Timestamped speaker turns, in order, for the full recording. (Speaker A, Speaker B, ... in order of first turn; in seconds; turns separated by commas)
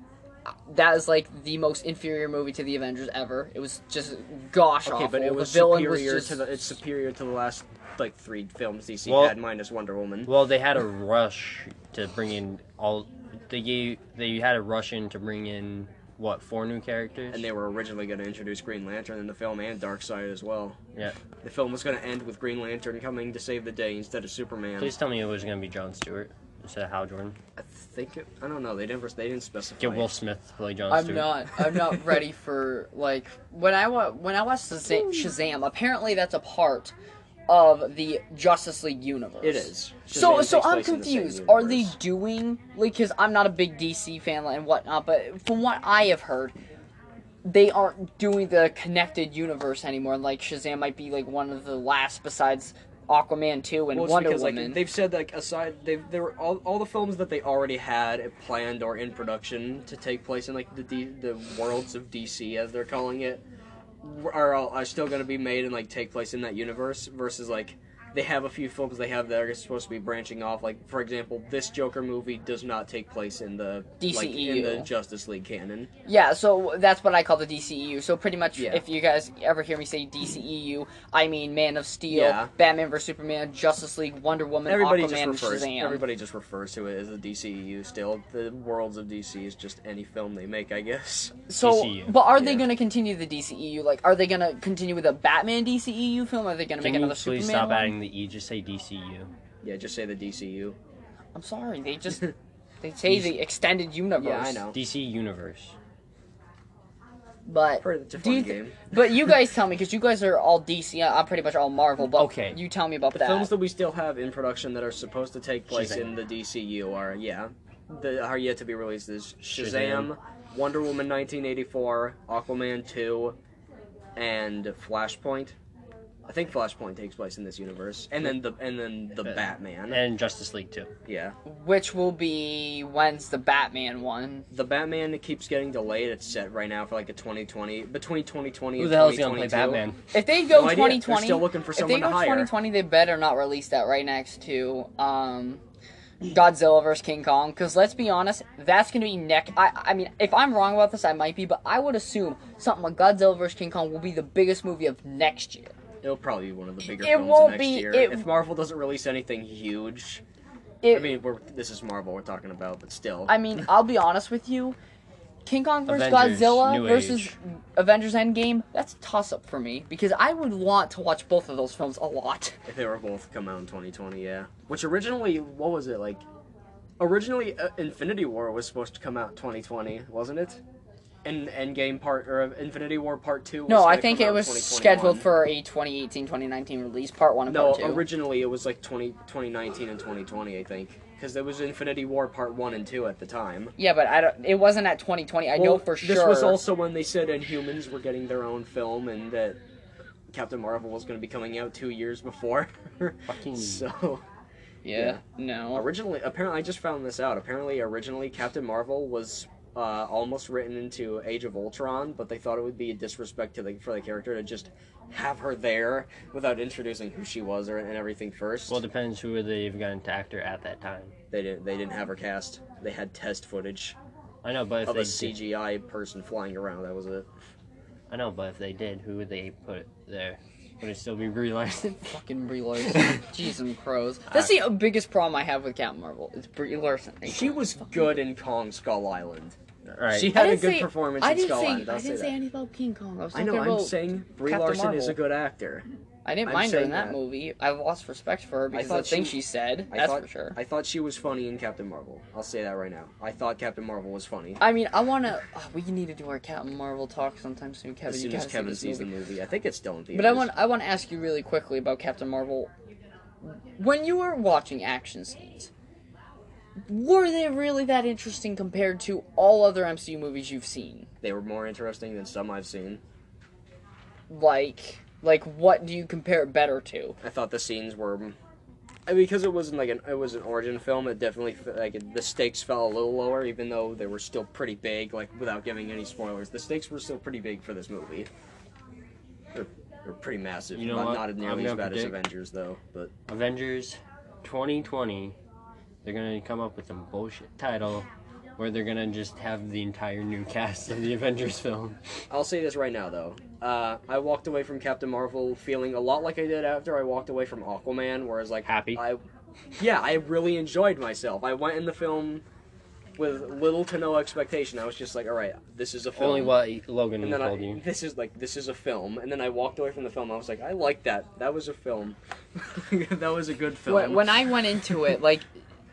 Speaker A: 0.5-6.4, Speaker B: 4.8-10.3, Speaker C: 9.1-9.4, Speaker C: 10.3-17.4, Speaker B: 17.3-20.8, Speaker B: 21.4-24.9, Speaker C: 24.8-27.4, Speaker B: 27.6-30.2, Speaker C: 29.8-31.4, Speaker A: 30.9-36.9, Speaker B: 31.7-32.1, Speaker A: 37.5-46.6, Speaker B: 39.4-42.0, Speaker A: 47.4-54.8, Speaker B: 53.9-63.4, Speaker B: 64.0-75.9, Speaker A: 74.0-74.9, Speaker A: 76.1-86.0, Speaker B: 78.6-78.8, Speaker B: 82.1-82.5, Speaker B: 84.7-91.4, Speaker A: 91.5-97.9, Speaker C: 91.6-92.2, Speaker B: 92.2-92.8, Speaker C: 96.8-99.3, Speaker B: 99.6-100.8, Speaker A: 101.3-102.3, Speaker A: 102.8-104.7, Speaker C: 103.1-103.4, Speaker B: 104.2-104.8, Speaker C: 104.7-105.8, Speaker A: 107.5-113.5, Speaker B: 107.8-108.9, Speaker C: 112.1-112.6, Speaker B: 113.1-123.4, Speaker C: 115.7-116.2, Speaker C: 119.4-120.1, Speaker B: 124.2-125.5, Speaker B: 126.2-130.0, Speaker C: 129.3-130.9, Speaker B: 131.1-131.3, Speaker A: 131.4-134.4, Speaker B: 134.5-139.8, Speaker C: 138.8-140.0, Speaker A: 140.1-145.6, Speaker B: 140.5-142.5, Speaker A: 146.2-155.8, Speaker B: 156.0-160.2, Speaker A: 156.9-158.3, Speaker A: 160.8-161.2, Speaker B: 160.9-163.5, Speaker A: 163.3-164.8, Speaker A: 165.4-172.6, Speaker C: 165.9-167.3, Speaker B: 172.7-176.2, Speaker B: 177.0-180.6, Speaker B: 181.2-185.3, Speaker A: 183.7-188.1, Speaker B: 187.5-193.8, Speaker A: 193.8-196.6, Speaker B: 195.6-199.6, Speaker B: 200.3-204.2, Speaker C: 203.3-203.8, Speaker A: 204.8-205.9, Speaker B: 204.9-205.2, Speaker B: 205.7-218.8, Speaker C: 218.7-221.1, Speaker B: 221.3-224.0, Speaker C: 224.4-225.4, Speaker B: 224.9-227.3, Speaker C: 228.1-232.0, Speaker A: 232.0-238.0, Speaker C: 233.0-233.2, Speaker B: 237.3-239.6, Speaker C: 239.9-240.3, Speaker B: 240.1-242.3, Speaker A: 240.3-245.2, Speaker B: 243.3-245.8, Speaker A: 246.2-250.6, Speaker B: 246.4-247.2, Speaker B: 248.7-254.6, Speaker A: 254.6-259.1, Speaker B: 258.1-260.5, Speaker A: 260.1-262.7, Speaker A: 263.4-265.7, Speaker A: 266.9-271.1, Speaker B: 271.2-273.0, Speaker A: 274.3-277.2, Speaker B: 277.2-278.4, Speaker B: 279.1-288.3, Speaker B: 289.5-293.1, Speaker C: 290.7-292.2, Speaker C: 293.3-295.4, Speaker C: 296.0-302.0, Speaker B: 302.3-309.2, Speaker C: 308.7-309.0, Speaker B: 309.8-312.4, Speaker B: 313.2-316.6, Speaker C: 316.1-317.8, Speaker B: 317.2-325.0, Speaker A: 323.9-325.5